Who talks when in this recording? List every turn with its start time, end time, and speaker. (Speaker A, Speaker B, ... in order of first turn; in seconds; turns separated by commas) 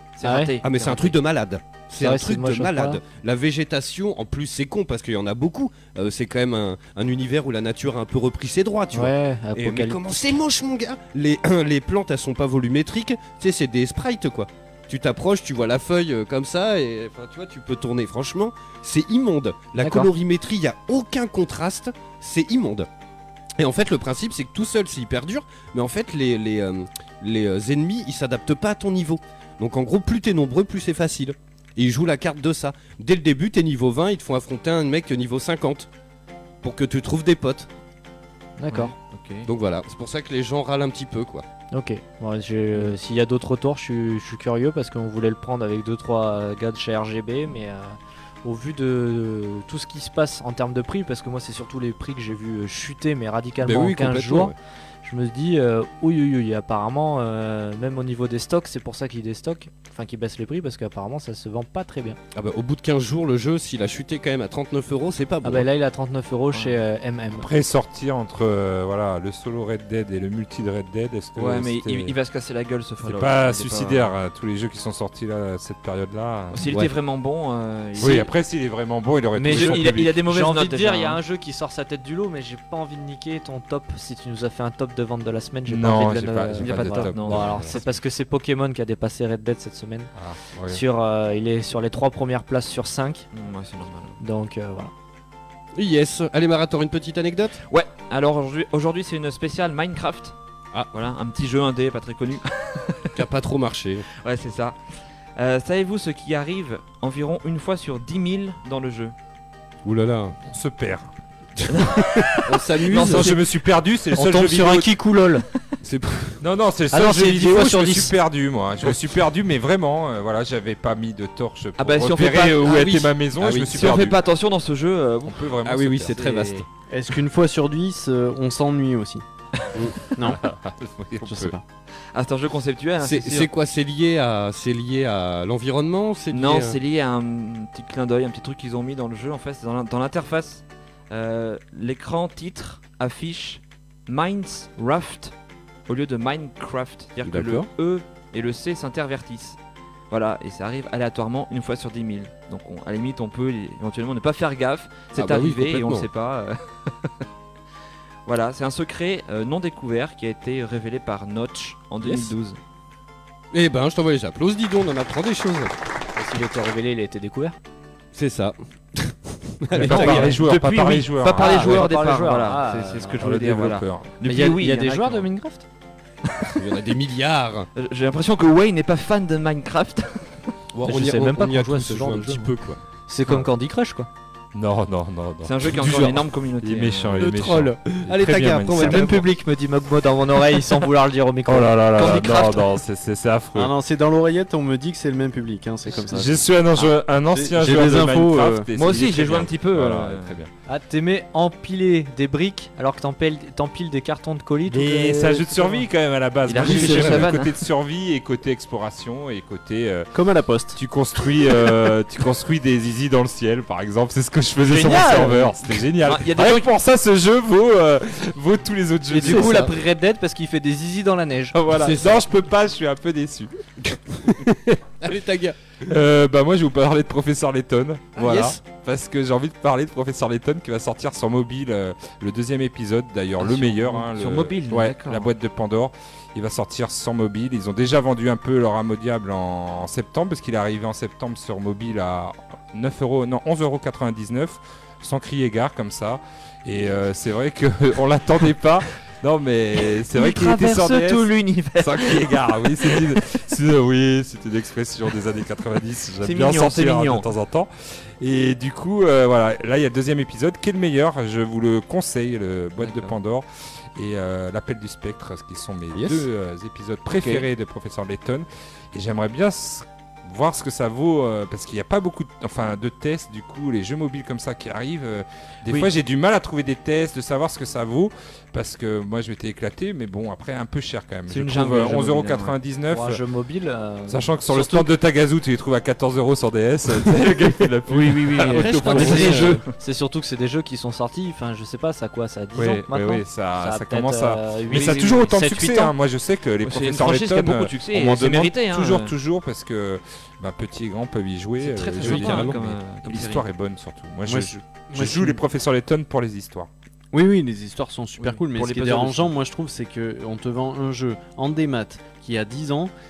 Speaker A: 0.1-1.2, Speaker B: 0.2-0.5, Speaker C: 0.6-22.9, Speaker B: 2.0-3.0, Speaker B: 8.9-10.4, Speaker B: 19.8-20.1, Speaker C: 23.6-35.9, Speaker C: 36.6-37.7, Speaker B: 38.6-38.9, Speaker A: 38.7-39.5, Speaker C: 39.4-41.4, Speaker B: 41.7-62.2, Speaker C: 53.6-54.5, Speaker C: 62.3-65.7, Speaker B: 65.4-67.5, Speaker D: 67.3-72.2, Speaker A: 71.3-74.1, Speaker D: 73.0-76.7, Speaker A: 76.5-78.3, Speaker D: 78.0-80.1, Speaker B: 79.3-90.1, Speaker A: 79.5-81.2, Speaker D: 85.7-87.8, Speaker A: 86.6-87.8, Speaker D: 90.1-90.8, Speaker B: 90.7-93.2, Speaker A: 93.3-94.2, Speaker B: 94.2-94.9, Speaker C: 95.7-97.6, Speaker A: 97.7-100.3, Speaker A: 100.9-103.2, Speaker C: 103.1-104.0, Speaker A: 104.2-109.1, Speaker C: 109.8-110.4, Speaker D: 110.5-111.1, Speaker C: 111.7-113.3, Speaker A: 111.7-113.3, Speaker D: 112.9-114.9, Speaker B: 114.1-115.4, Speaker C: 115.8-116.4, Speaker D: 116.4-124.2, Speaker B: 116.9-118.2, Speaker A: 121.8-123.0, Speaker C: 122.7-123.9, Speaker A: 123.6-126.6, Speaker D: 125.2-126.2, Speaker C: 125.6-126.7, Speaker E: 126.9-129.2, Speaker C: 129.7-130.1, Speaker E: 130.2-130.4, Speaker D: 130.2-131.6, Speaker E: 131.2-131.6, Speaker A: 132.1-133.5, Speaker C: 133.0-136.8, Speaker A: 136.3-145.3, Speaker A: 145.9-149.6, Speaker C: 147.2-147.7, Speaker A: 150.1-157.2, Speaker C: 155.1-156.1, Speaker A: 158.2-162.6, Speaker C: 162.0-162.3, Speaker C: 163.5-165.7, Speaker B: 166.2-167.6, Speaker C: 168.1-170.4, Speaker D: 169.7-171.9, Speaker A: 169.8-175.2, Speaker B: 169.9-170.4, Speaker B: 171.0-173.3, Speaker D: 173.2-174.1, Speaker B: 174.2-175.6, Speaker A: 176.2-176.6, Speaker C: 176.6-177.7, Speaker A: 177.8-180.4, Speaker C: 180.7-182.8, Speaker B: 180.8-182.5, Speaker B: 183.1-184.1, Speaker D: 184.5-189.2, Speaker A: 185.4-187.3, Speaker C: 187.2-189.2, Speaker B: 188.7-192.5, Speaker D: 191.4-193.7, Speaker A: 191.9-192.7, Speaker E: 193.5-196.6, Speaker D: 196.0-200.5, Speaker E: 197.3-198.7, Speaker A: 198.7-200.3, Speaker B: 200.7-205.9, Speaker D: 204.7-210.1, Speaker A: 206.5-207.6, Speaker C: 206.6-207.3, Speaker E: 210.1-210.8, Speaker D: 210.8-219.7, Speaker B: 214.7-215.6, Speaker A: 216.0-216.7, Speaker B: 219.1-221.6, Speaker D: 221.5-223.5, Speaker C: 221.8-222.2, Speaker C: 223.9-224.5, Speaker C: 225.0-225.6, Speaker D: 225.8-283.2, Speaker C: 228.2-228.6, Speaker A: 233.4-235.3, Speaker A: 250.1-253.2, Speaker A: 256.2-257.3, Speaker A: 262.8-263.1, Speaker C: 265.9-266.3, Speaker A: 267.1-267.4, Speaker A: 281.3-282.6, Speaker B: 282.9-284.9, Speaker D: 284.1-289.6, Speaker B: 288.1-295.9, Speaker A: 288.1-289.6, Speaker C: 288.5-289.5, Speaker D: 292.5-306.7, Speaker A: 294.7-295.1, Speaker A: 296.6-299.1, Speaker A: 301.6-303.4, Speaker C: 302.0-302.6, Speaker E: 304.2-305.4, Speaker E: 307.1-312.9, Speaker A: 308.2-309.3